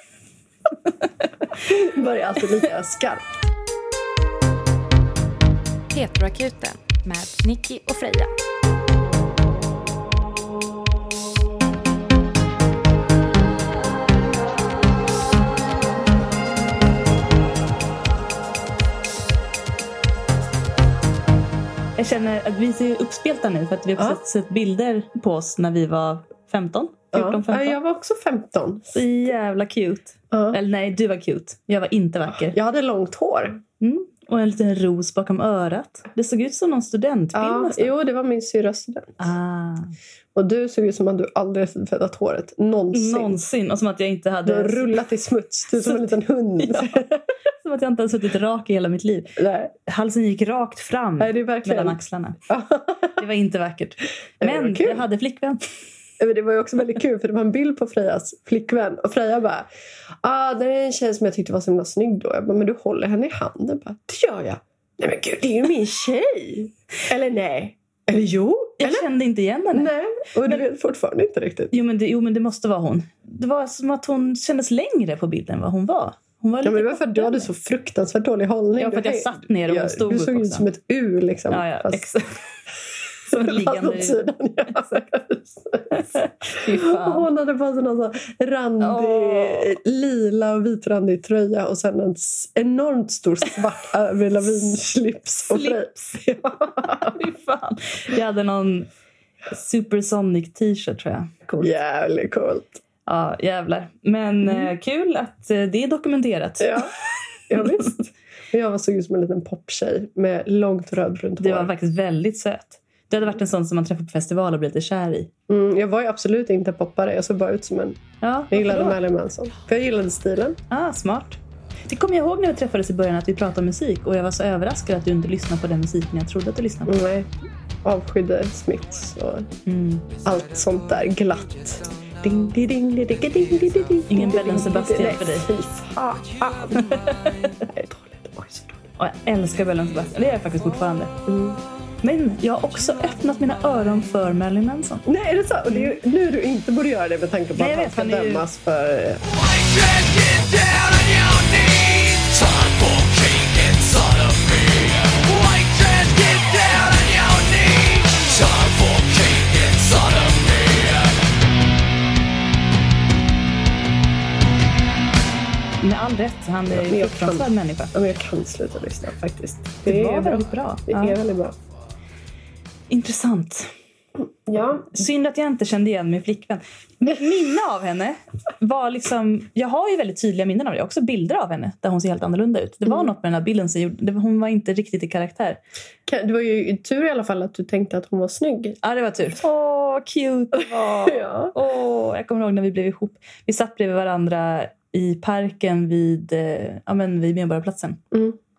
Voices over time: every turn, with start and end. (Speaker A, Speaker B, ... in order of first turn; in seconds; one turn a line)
Speaker A: 1.6-3.4
Speaker B: 5.9-8.3
Speaker C: 22.0-27.8
Speaker A: 27.1-29.0
Speaker C: 28.9-32.5
Speaker A: 30.3-30.6
Speaker A: 32.3-33.6
Speaker C: 33.8-37.9
Speaker A: 37.3-39.2
Speaker C: 39.2-39.9
Speaker A: 40.3-43.5
Speaker C: 42.9-45.0
Speaker A: 44.5-47.2
Speaker C: 46.6-46.9
Speaker C: 47.6-52.4
Speaker A: 49.4-49.7
Speaker A: 51.2-52.0
Speaker A: 52.5-53.2
Speaker C: 53.2-55.6
Speaker A: 54.4-55.0
Speaker A: 56.2-59.7
Speaker A: 60.2-69.0
Speaker C: 68.8-69.9
Speaker A: 69.7-71.7
Speaker C: 71.7-77.4
Speaker A: 76.6-82.1
Speaker C: 78.8-80.7
Speaker C: 81.5-82.4
Speaker C: 83.2-84.2
Speaker A: 83.3-86.2
Speaker C: 86.0-87.3
Speaker A: 86.7-97.1
Speaker C: 88.8-89.8
Speaker C: 95.5-96.1
Speaker C: 96.8-98.9
Speaker C: 99.5-101.7
Speaker A: 101.6-102.8
Speaker C: 103.0-106.9
Speaker A: 106.6-106.9
Speaker A: 107.5-111.7
Speaker C: 111.4-115.3
Speaker A: 115.5-120.6
Speaker C: 118.2-119.0
Speaker C: 120.7-126.9
Speaker A: 126.8-127.3
Speaker A: 127.8-129.5
Speaker C: 129.7-130.0
Speaker A: 130.2-136.9
Speaker C: 134.1-135.5
Speaker C: 136.8-137.4
Speaker A: 137.6-138.8
Speaker C: 139.0-141.1
Speaker A: 141.3-141.6
Speaker C: 142.0-145.0
Speaker A: 145.1-149.2
Speaker C: 147.6-148.4
Speaker C: 165.8-167.9
Speaker A: 166.7-171.6
Speaker C: 169.8-171.2
Speaker C: 172.9-173.7
Speaker A: 174.5-174.9
Speaker C: 174.9-185.6
Speaker A: 186.1-188.8
Speaker C: 188.8-198.0
Speaker A: 191.0-191.5
Speaker A: 198.1-198.4